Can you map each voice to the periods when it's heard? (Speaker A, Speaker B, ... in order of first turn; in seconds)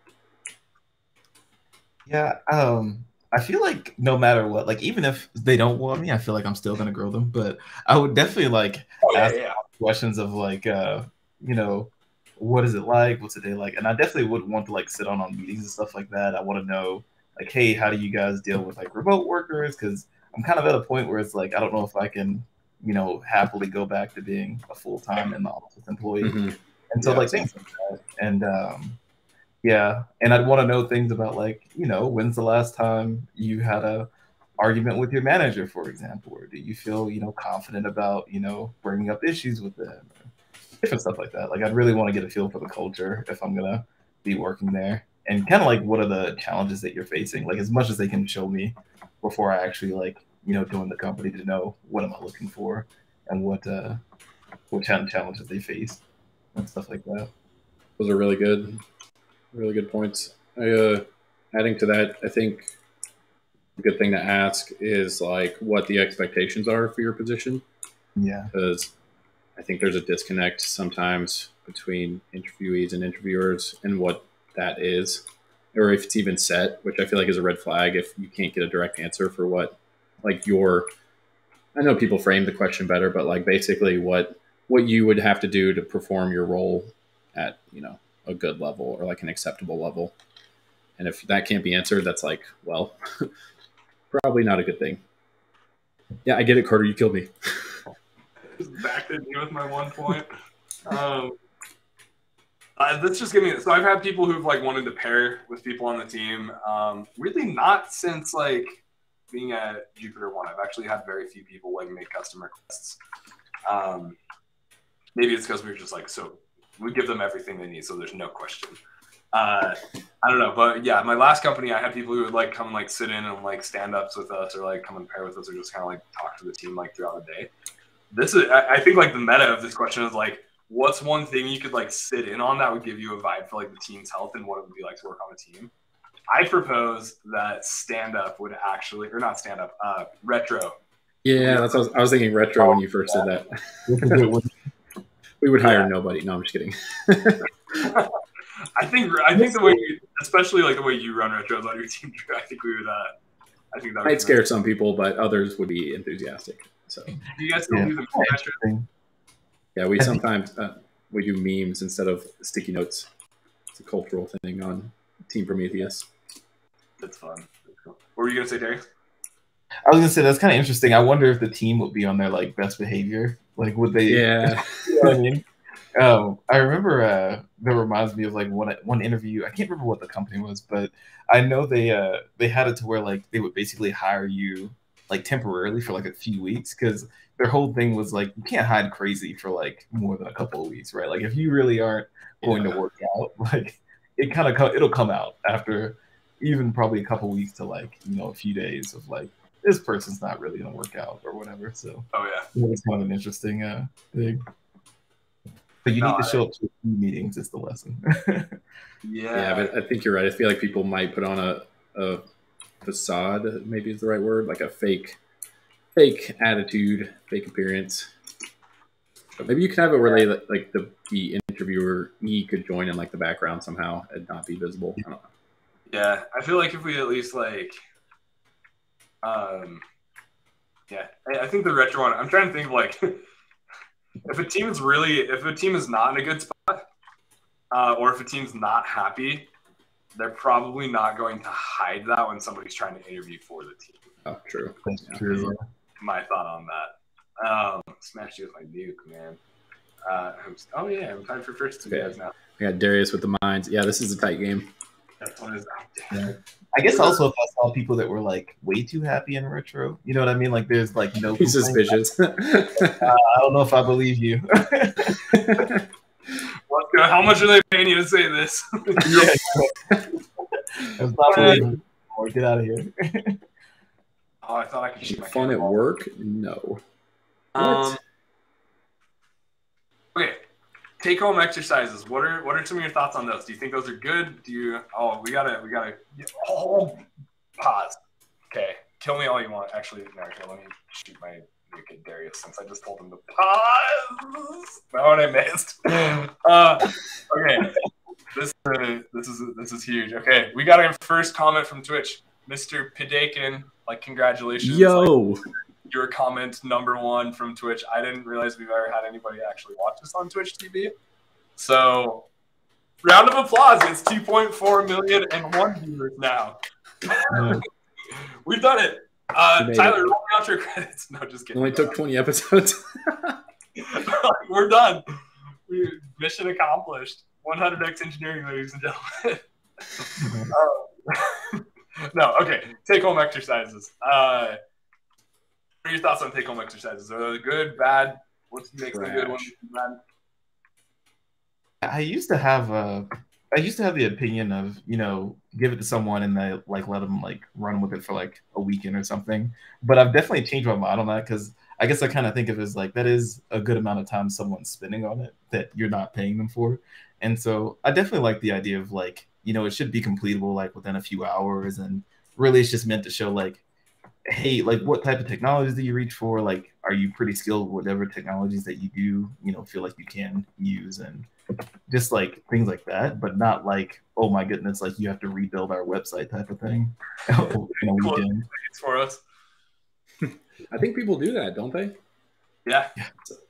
Speaker A: 2.1-26.4, 26.9-29.0, 29.6-34.1, 34.6-40.1, 40.8-54.0, 54.7-56.0, 56.5-57.3, 68.2-68.5, 143.9-144.5, 149.3-149.8, 157.7-158.9, 169.8-175.4, 176.0-204.4, 205.8-208.6, 244.8-245.6, 256.1-262.0, 262.8-265.7, 269.0-269.9, 270.8-273.4, 317.3-317.6, 330.2-330.5, 341.8-363.6, 364.3-371.3, 371.9-378.5
Speaker B: 9.0-9.6, 98.5-100.3, 100.8-101.4, 102.8-113.0, 113.7-114.2, 115.2-118.8, 119.3-127.5, 128.1-135.7, 136.3-140.7, 141.4-141.9, 142.6-143.3, 145.6-145.9, 147.8-148.1, 148.8-153.1, 153.7-154.4, 157.2-158.6, 167.0-168.8, 192.4-192.8, 202.1-202.5, 206.0-206.4, 209.0-209.7, 225.9-227.8, 229.2-229.8, 230.9-233.2, 234.2-236.8, 237.7-239.5, 240.1-244.0, 246.0-249.4, 250.1-252.3, 255.2-257.2, 266.7-269.3, 271.3-271.6, 274.4-275.8, 277.5-278.0, 280.1-280.4, 281.0-287.0, 287.6-288.0, 288.5-297.8, 298.3-305.1, 305.9-310.9, 311.6-312.3, 313.0-321.9, 323.8-325.0, 325.7-329.4, 329.9-334.6, 335.8-340.0, 377.9-379.2, 382.6-382.9
Speaker C: 26.2-27.5, 58.0-58.8, 59.5-62.7, 63.8-67.6, 68.5-68.9, 69.5-80.9, 81.7-90.1, 91.0-93.3, 94.1-95.0, 96.2-97.8, 141.2-144.3, 145.4-147.4, 154.0-157.2, 159.7-163.1, 163.7-166.1, 174.1-175.2, 209.3-212.2, 212.8-215.2, 215.9-218.1, 219.4-225.2, 244.2-245.5, 251.9-254.7, 261.3-263.1, 265.3-265.8, 271.3-271.6, 275.0-276.8, 277.6-278.0, 304.6-305.4, 319.6-320.0, 321.5-323.4, 338.9-339.5, 380.2-382.0